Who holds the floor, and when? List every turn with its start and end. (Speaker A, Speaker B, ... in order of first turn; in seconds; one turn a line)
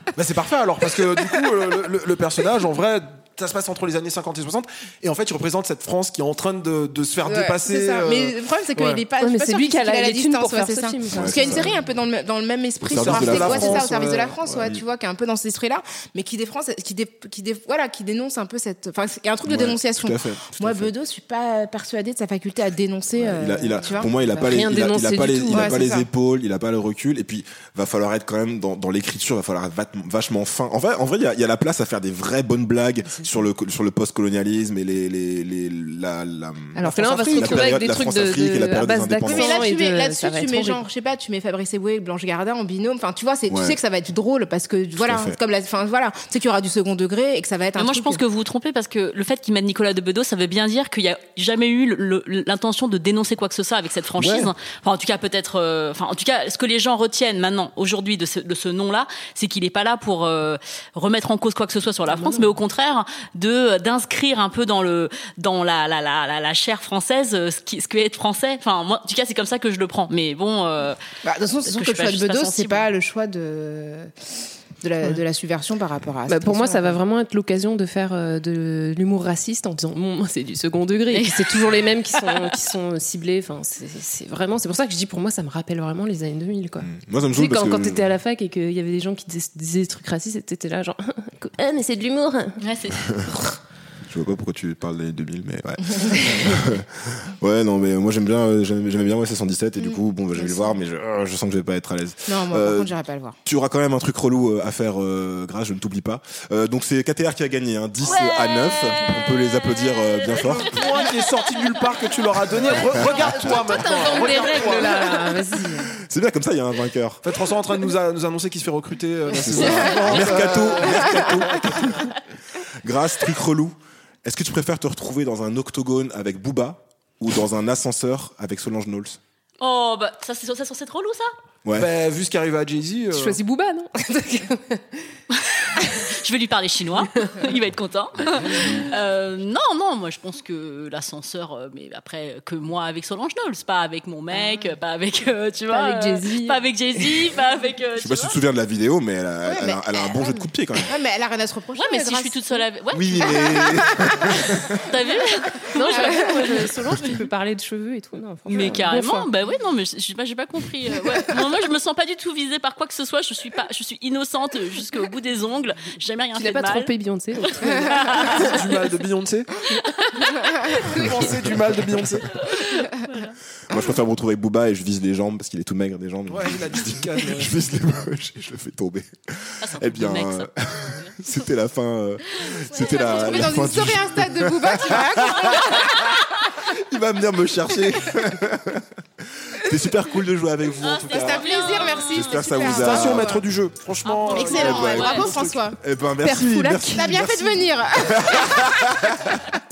Speaker A: 0.1-9.0
Speaker B: 7.2-24.6
Speaker C: 9.2-11.7
Speaker D: 11.1-11.8
Speaker D: 12.8-13.9
Speaker A: 12.9-14.4
Speaker D: 14.4-14.8
Speaker D: 19.4-20.9
Speaker D: 23.1-39.6
Speaker C: 24.5-25.9
Speaker B: 25.5-26.1
Speaker C: 36.7-40.8
Speaker B: 37.4-37.7
Speaker B: 39.2-48.2
Speaker D: 43.5-43.8
Speaker D: 45.0-45.4
Speaker E: 47.8-71.0
Speaker D: 54.2-54.5
Speaker B: 71.2-74.1
Speaker E: 71.6-72.9
Speaker B: 74.8-77.0
Speaker C: 76.3-92.6
Speaker E: 81.1-82.5
Speaker D: 86.8-88.0
Speaker E: 92.6-93.2
Speaker D: 93.0-93.3
Speaker D: 94.1-102.9
Speaker B: 99.8-100.7
Speaker B: 102.3-103.4
Speaker D: 103.4-110.9
Speaker E: 108.0-111.4
Speaker A: 110.3-115.2
Speaker C: 113.2-115.9
Speaker E: 114.1-114.4
Speaker D: 116.0-117.2
Speaker A: 117.2-122.2
Speaker C: 119.3-120.2
Speaker D: 119.3-121.9
Speaker D: 122.8-129.2
Speaker E: 129.6-131.3
Speaker A: 131.7-133.4
Speaker C: 133.1-135.0
Speaker E: 135.3-148.4
Speaker C: 137.1-137.4
Speaker D: 138.5-138.8
Speaker C: 145.7-146.6
Speaker D: 148.0-150.9
Speaker B: 149.5-152.7
Speaker E: 151.8-153.6
Speaker D: 152.9-154.9
Speaker B: 153.2-154.7
Speaker E: 154.8-156.6
Speaker C: 155.7-159.3
Speaker B: 155.9-156.5
Speaker E: 158.5-166.9
Speaker C: 166.3-168.5
Speaker E: 167.7-168.6
Speaker A: 168.2-169.6
Speaker E: 169.7-171.1
Speaker A: 170.9-172.4
Speaker E: 172.4-173.3
Speaker D: 173.7-193.4
Speaker A: 176.3-177.6
Speaker E: 179.6-181.2
Speaker E: 182.5-183.5
Speaker B: 182.8-185.9
Speaker E: 190.8-192.7
Speaker B: 191.1-193.5
Speaker A: 192.7-195.6
Speaker E: 194.0-195.3
Speaker B: 194.3-199.2
Speaker D: 194.5-195.2
Speaker D: 195.8-199.4